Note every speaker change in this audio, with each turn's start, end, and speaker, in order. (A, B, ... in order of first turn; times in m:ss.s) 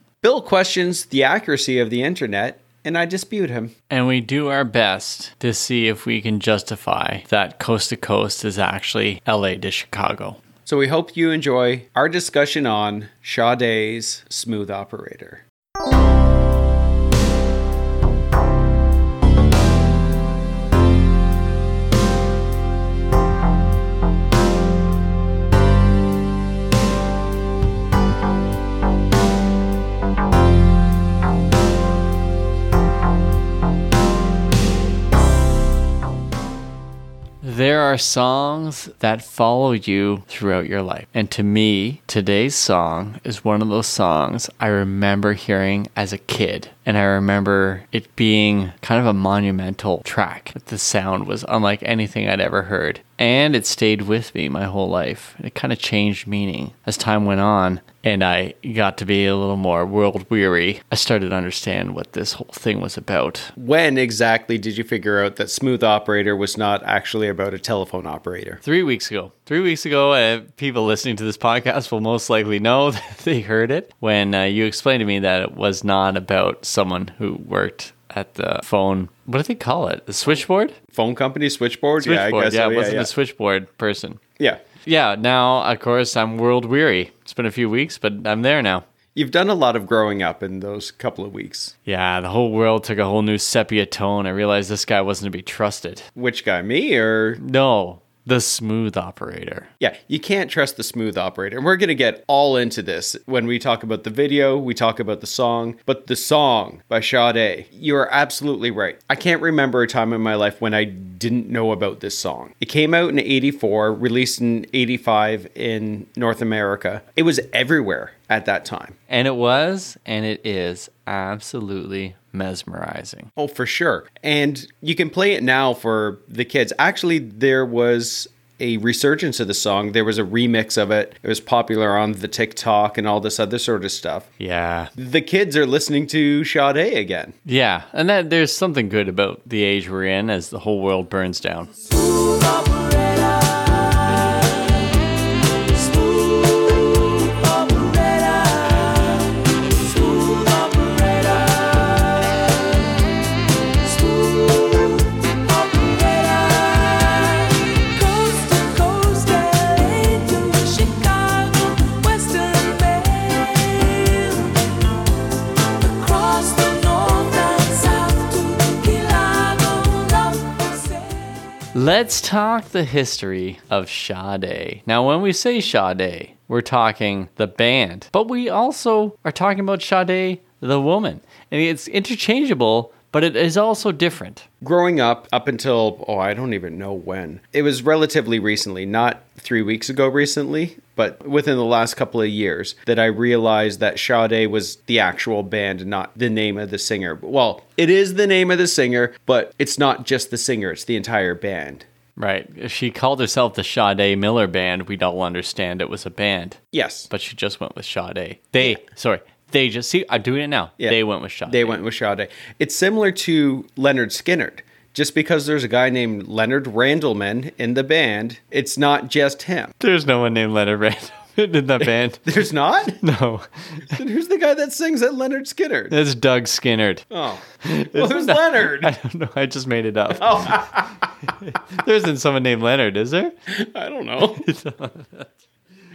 0:00.2-0:03.7 A
0:03.9-0:10.4 B
0:10.7-0:15.4 A
0:37.4-1:03.5 B
1:03.6-1:08.6 A
1:08.6-1:20.8 B
1:20.9-1:23.1 A
1:22.0-1:24.2 B
1:24.8-1:28.8 B
1:29.2-1:31.7 A
1:31.9-1:36.1 B
1:36.2-1:37.4 A
1:37.4-1:39.7 B
1:39.8-1:59.0 A
1:59.1-2:03.3 B
2:03.4-2:14.3 A
2:14.4-2:14.9 B
2:15.0-2:17.4 A
2:17.4-2:21.7 B
2:21.8-2:33.0 C
2:33.6-2:44.7 C
2:45.7-2:51.6 C
2:51.7-3:04.5 B
3:04.6-3:21.8 A
3:22.2-3:26.6 B
3:26.7-3:27.1 A
3:27.1-3:31.8 B
3:30.8-3:39.7 A
3:39.8-3:42.2 B
3:41.8-3:43.0 A
3:43.0-3:43.9 B
3:43.9-3:45.9 A
3:45.9-3:47.1 B
3:47.1-3:48.9 A
3:47.6-3:53.3 B
3:50.2-3:51.3 A
3:53.5-3:54.5 A
3:54.2-3:55.3 B